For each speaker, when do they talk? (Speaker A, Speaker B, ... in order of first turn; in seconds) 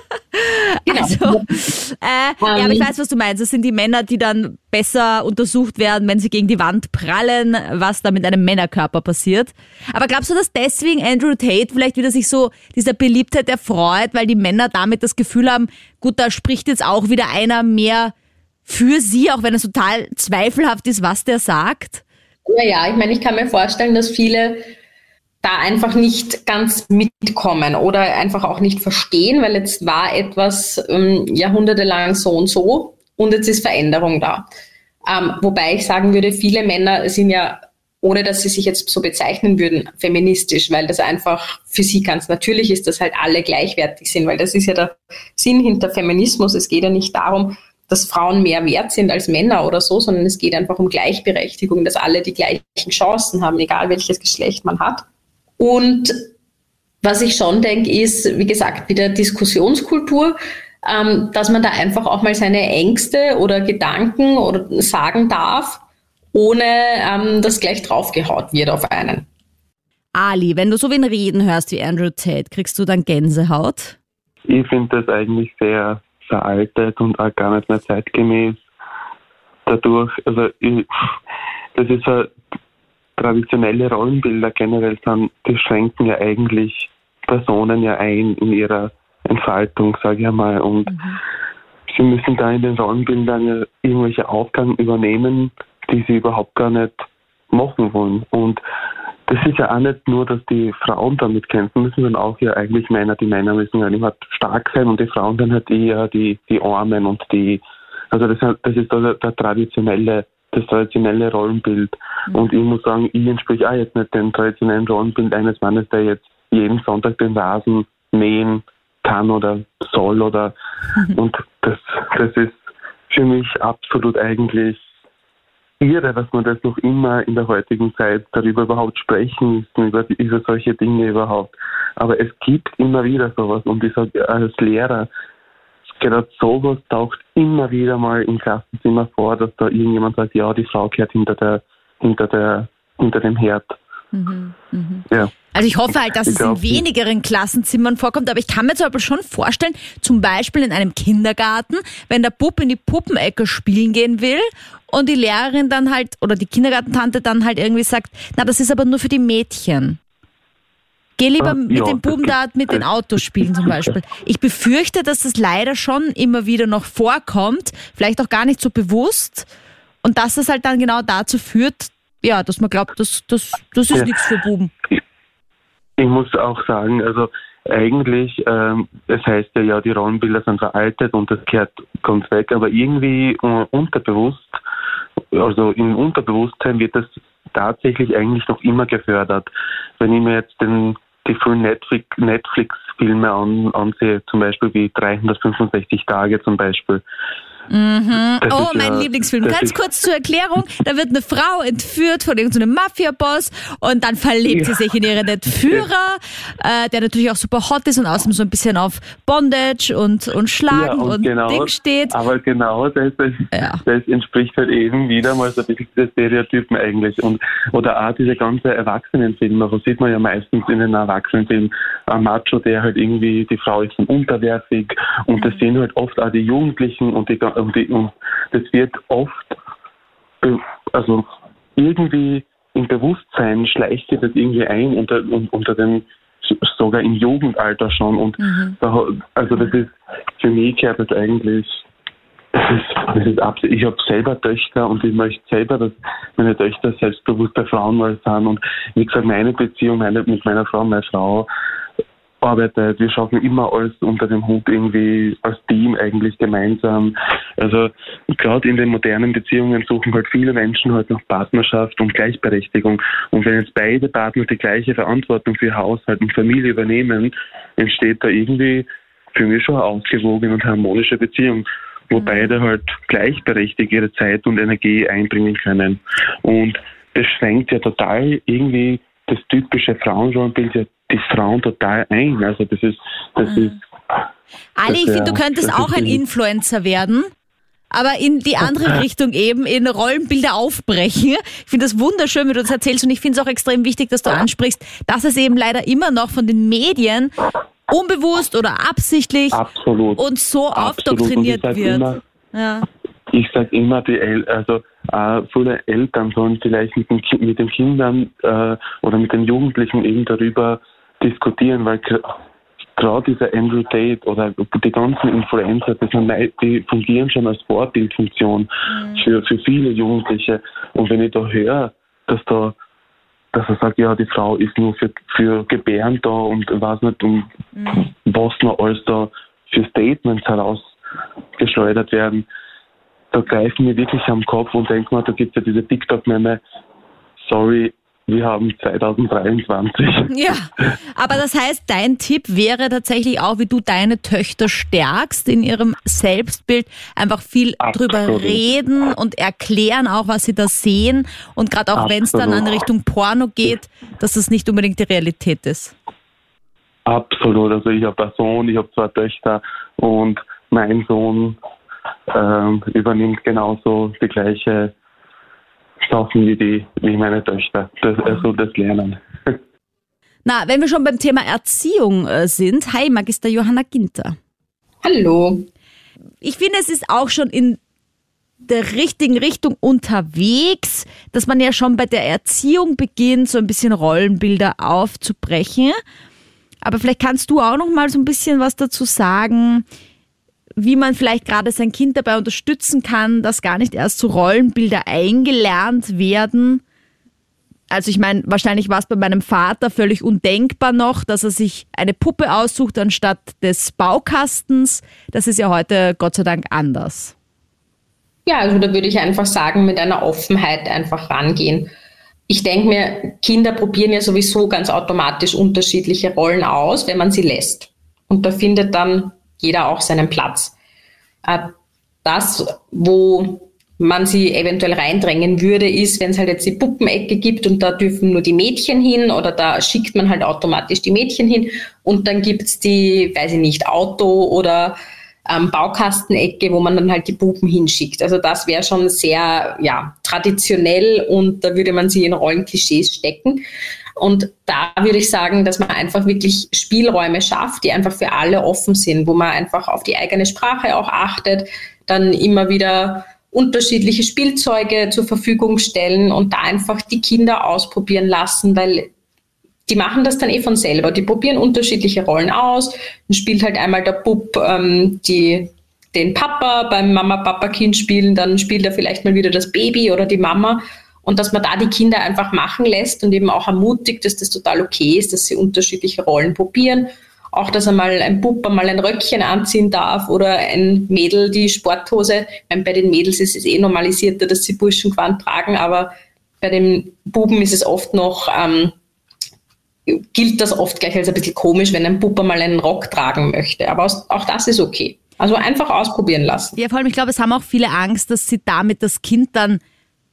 Speaker A: 0.3-18.1, 18.6-22.0, 70.1-74.0, 90.9-91.2, 144.1-160.0, 161.2-169.5, 170.0-174.7, 197.7-212.1, 213.5-213.8, 225.4-225.6, 238.4-238.8, 272.1-272.6, 283.5-283.8, 284.8-287.3, 287.9-297.3, 297.9-299.6, 300.2-302.9, 318.9-319.2, 327.7-328.1, 340.3-355.9, 370.4-374.4, 376.4-377.8, 378.6-386.0, 386.8-389.8, 390.8-396.8, 397.9-407.3, 496.8-499.8
Speaker B: 0.9-1.6, 2.4-2.9, 22.5-24.6, 25.4-34.5, 35.0-55.0, 55.6-56.3, 57.0-65.8, 66.3-69.2, 375.0-375.7, 408.4-411.9, 412.5-420.7, 421.4-421.7, 422.2-434.9, 435.5-443.6, 444.2-459.1, 459.9-488.9, 490.1-496.8
Speaker C: 74.5-78.7, 79.7-80.9, 81.7-82.3, 83.2-91.0, 91.9-98.6, 99.3-120.5, 121.1-124.8, 125.8-135.1, 135.9-143.8, 145.9-146.8, 161.4-162.8, 163.4-163.8, 176.0-184.6, 185.3-197.0, 198.4-199.8, 204.5-204.8, 205.5-205.8, 210.7-229.6, 230.4-241.8, 242.5-251.4, 252.4-283.8, 284.8-286.2, 299.5-302.2, 303.3-312.2, 313.0-322.8, 323.5-327.5, 328.2-330.9, 331.6-332.4, 333.3-336.6, 337.4-340.9, 347.8-348.6, 351.9-352.8, 357.1-361.6, 362.3-364.9, 366.0-369.6